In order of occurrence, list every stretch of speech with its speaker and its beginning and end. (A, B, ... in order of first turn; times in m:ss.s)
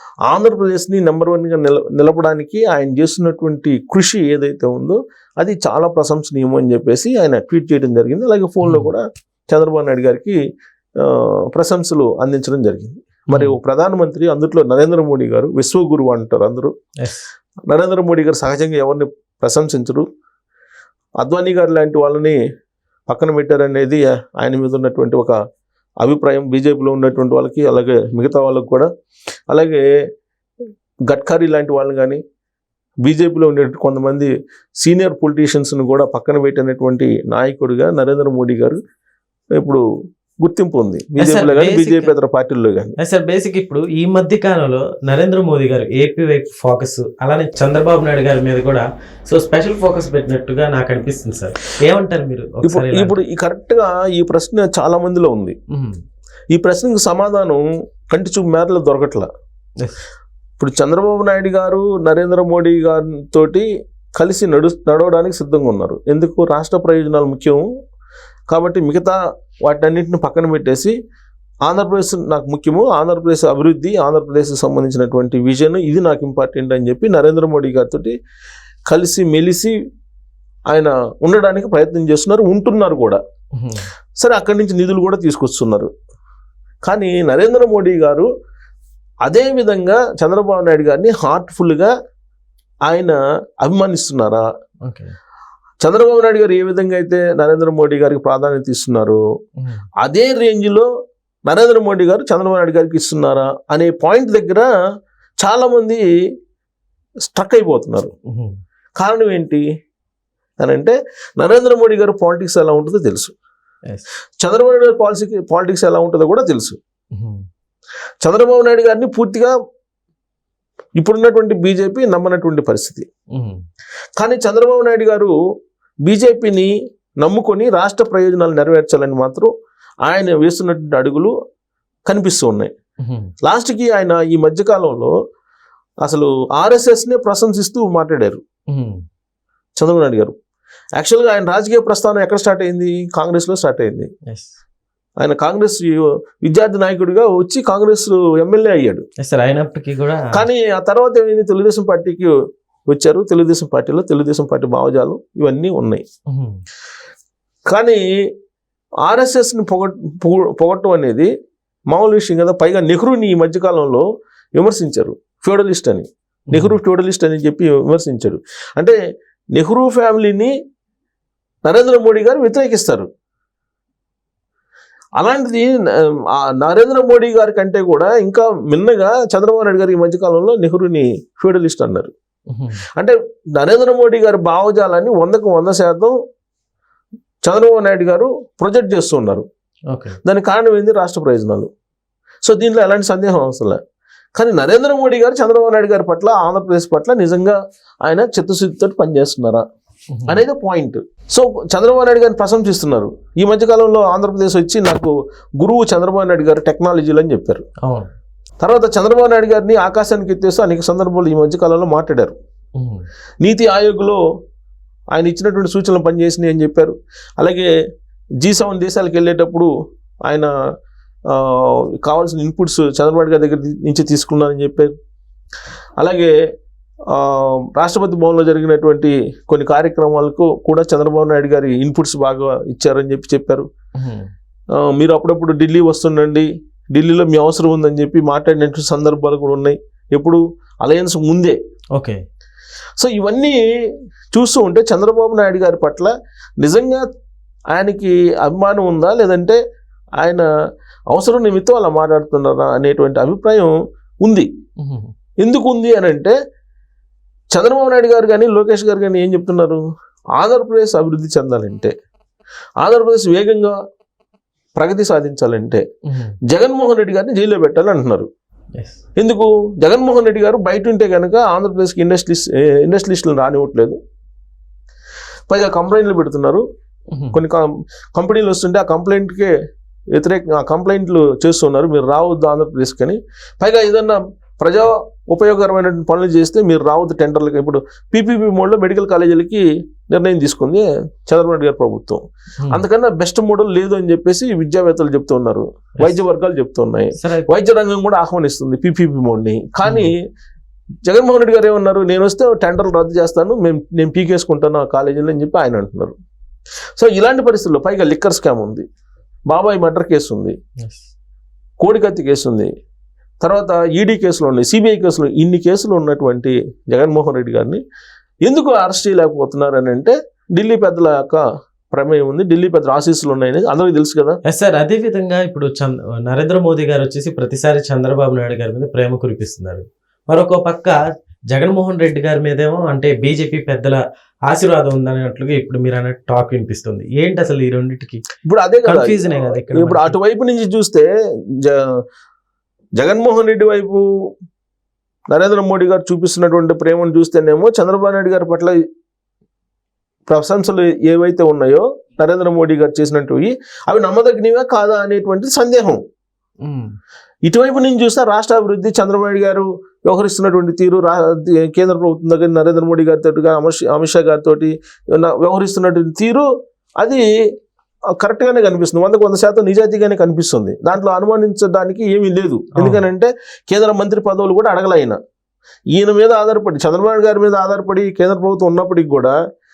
0:00.3-0:10.4 A
0:08.6-0:08.9 B
0:11.0-0:16.7 A
0:13.3-0:13.6 B
0:17.0-0:17.3 B
0:17.7-0:20.0 A
0:21.2-0:22.4 A
0:23.1-0:25.4 A
0:26.0-0:28.9 A
0:29.5-0:29.8 A
0:31.1-0:32.2 A
0:33.0-0:38.8 A
0:39.6-0:39.8 A
0:40.4-0:42.9 A
0:41.2-0:42.1 B
0:43.0-0:53.2 B
0:52.6-0:55.6 A
0:55.7-0:56.0 B
0:56.5-0:59.3 A
1:00.6-1:07.6 A
1:08.5-1:10.9 A
1:11.7-1:18.1 A
1:18.9-1:19.7 A
1:20.7-1:23.2 A
1:23.6-1:23.9 B
1:24.2-1:25.9 A
1:26.8-1:28.3 A
1:29.2-1:31.9 A
1:32.9-1:34.4 A
1:34.8-1:35.1 B
1:35.8-1:39.2 A
1:40.0-1:40.9 A
1:41.5-1:44.7 A
1:45.4-1:46.0 A
1:47.3-1:48.1 A
1:48.3-1:48.5 B
1:49.0-1:49.6 A
1:50.6-1:53.3 A
1:54.4-1:56.8 A
1:57.1-1:57.4 B
1:58.2-1:59.5 A
2:01.0-2:03.1 A
2:03.3-2:03.6 B
2:04.2-2:05.3 A
2:06.0-2:09.5 A
2:10.0-2:11.3 A
2:12.1-2:12.7 A
2:13.0-2:13.3 B
2:13.4-2:15.1 A
2:16.0-2:18.4 A
2:18.7-2:19.0 B
2:19.8-2:20.3 A
2:21.0-2:24.1 A
2:24.3-2:24.5 B
2:25.2-2:29.0 A
2:29.2-2:30.4 B
2:30.3-2:32.3 A
2:32.9-2:36.0 A
2:36.3-2:36.6 B
2:37.7-2:38.0 A
2:39.0-2:41.3 A
2:41.9-2:49.0 A
2:46.5-2:46.8 B
2:49.5-2:50.5 A
2:51.7-2:53.1 A
2:55.2-3:02.1 A
3:02.5-3:02.8 B
3:03.0-3:06.2 A
3:07.4-3:09.4 A
3:09.9-3:10.2 B
3:10.2-3:11.7 A
3:12.4-3:13.8 A
3:14.4-3:19.6 A
3:20.1-3:20.4 B
3:20.3-3:27.6 A
3:27.8-3:28.1 B
3:28.6-3:32.3 A
3:32.8-3:33.0 B
3:33.4-3:34.2 A
3:35.1-3:37.7 A
3:38.4-3:39.7 A
3:41.3-3:44.9 A
3:46.0-3:46.3 A
3:47.1-3:53.7 A
3:54.0-3:54.3 B
3:54.7-4:01.6 A
4:01.9-4:02.2 B
4:03.0-4:03.6 A
4:04.3-4:07.0 A
4:07.7-4:09.6 A
4:10.2-4:10.5 A
4:11.1-4:13.7 A
4:14.2-4:14.5 A
4:14.8-4:15.1 B
4:15.4-4:16.3 A
4:17.5-4:19.8 A
4:20.4-4:21.9 A
4:22.8-4:23.8 A
4:24.8-4:25.8 A
4:26.1-4:26.3 B
4:26.5-4:28.3 A
4:29.2-4:34.0 A
4:35.5-4:36.6 A
4:37.1-4:37.4 B
4:37.3-4:39.5 A
4:40.2-5:00.2 A
4:57.2-4:57.5 B
4:59.8-5:00.1 B
5:01.0-5:06.1 A
5:07.0-5:08.8 A
5:09.5-5:10.6 A
5:10.8-5:11.1 B
5:11.8-5:12.7 A
5:13.4-5:17.8 A
5:18.4-5:24.4 A
5:24.4-5:31.0 B
5:31.5-5:38.2 B
5:38.4-5:41.1 A
5:38.8-5:40.1 B
5:41.6-5:42.0 A
5:43.0-5:44.0 A
5:45.3-5:48.8 A
5:50.3-5:56.0 A
5:56.6-5:56.9 B
5:57.4-6:06.5 A
6:07.0-6:07.2 A
6:08.2-6:15.2 A
6:12.8-6:13.0 B
6:15.9-6:19.3 A